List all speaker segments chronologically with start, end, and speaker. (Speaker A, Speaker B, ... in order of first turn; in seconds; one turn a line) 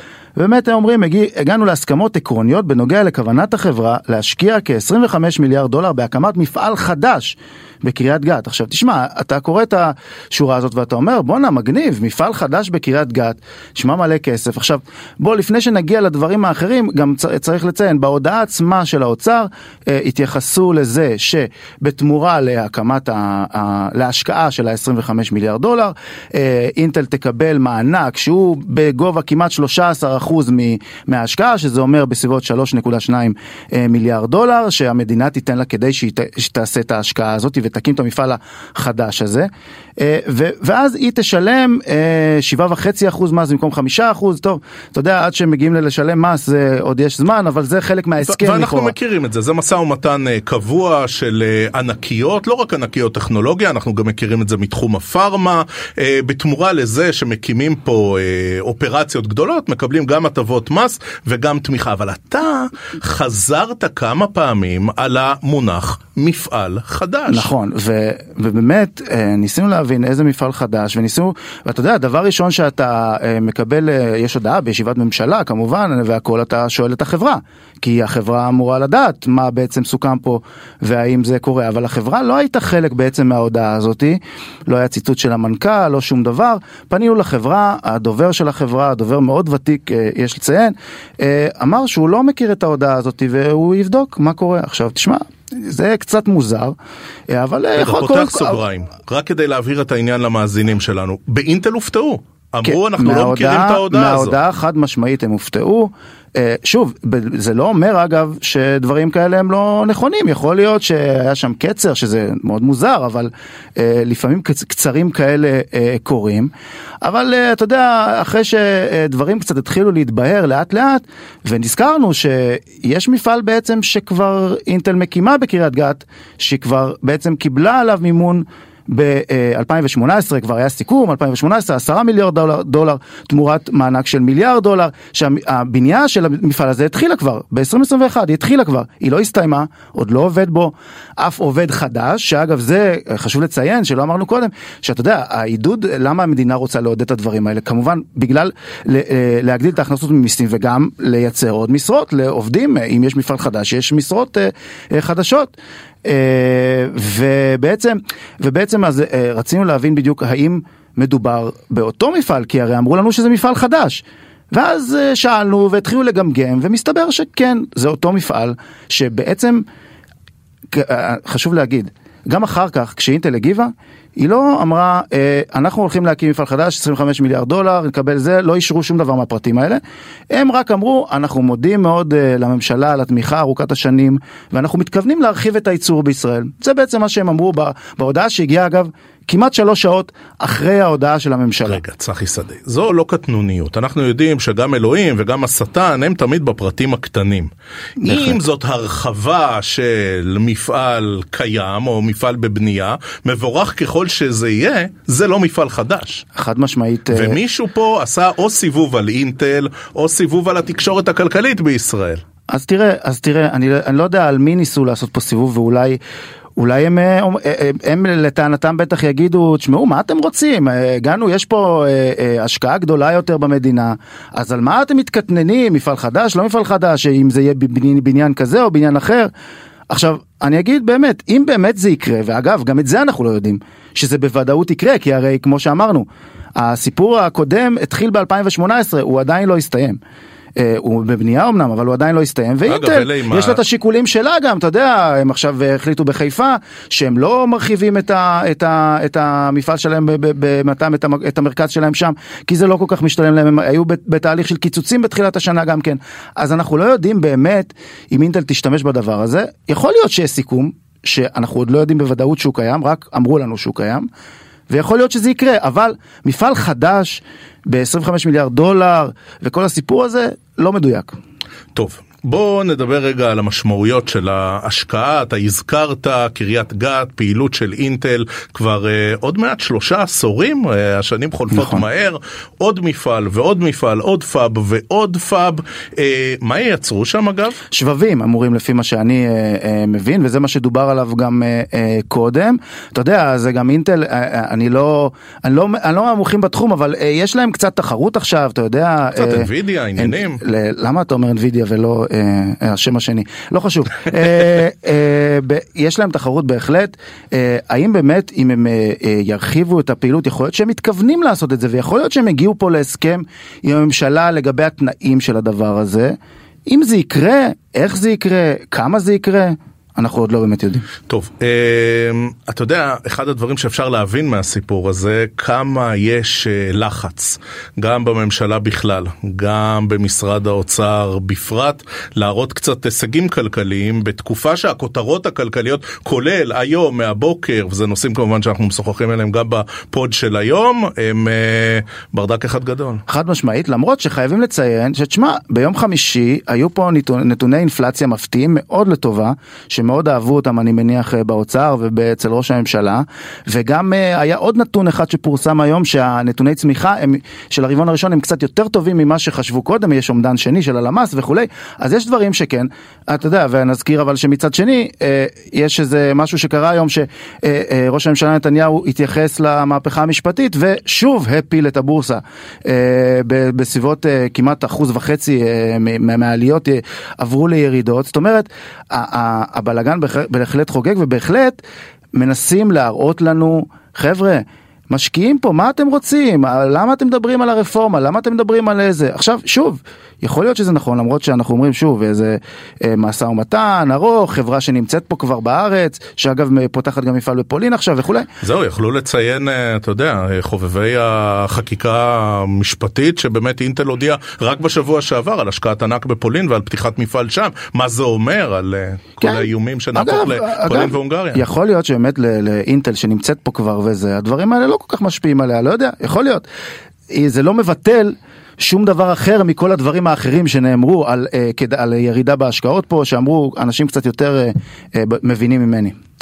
Speaker A: 0.4-48.9
Speaker B: 48.2-67.5
Speaker A: 67.3-96.8
Speaker A: 97.3-98.6
Speaker B: 97.8-104.3
Speaker A: 102.6-116.5
Speaker A: 117.0-155.5
Speaker A: 156.1-169.7
Speaker A: 170.7-191.8
Speaker B: 191.7-197.5
Speaker A: 198.0-198.4
Speaker B: 198.0-206.2
Speaker A: 206.3-207.4
Speaker B: 207.1-212.2
Speaker A: 212.5-216.0
Speaker A: 216.6-229.3
Speaker A: 229.9-240.0
Speaker A: 240.6-264.1
Speaker B: 242.7-243.6
Speaker A: 264.7-271.1
Speaker B: 271.8-287.6
Speaker A: 281.5-281.9
Speaker A: 287.7-316.2
Speaker B: 299.1-300.4
Speaker A: 316.7-320.9
Speaker B: 321.1-343.0
Speaker A: 343.1-381.6
Speaker A: 382.1-398.3
Speaker B: 398.4-411.4
Speaker A: 409.2-416.5
Speaker A: 417.1-425.9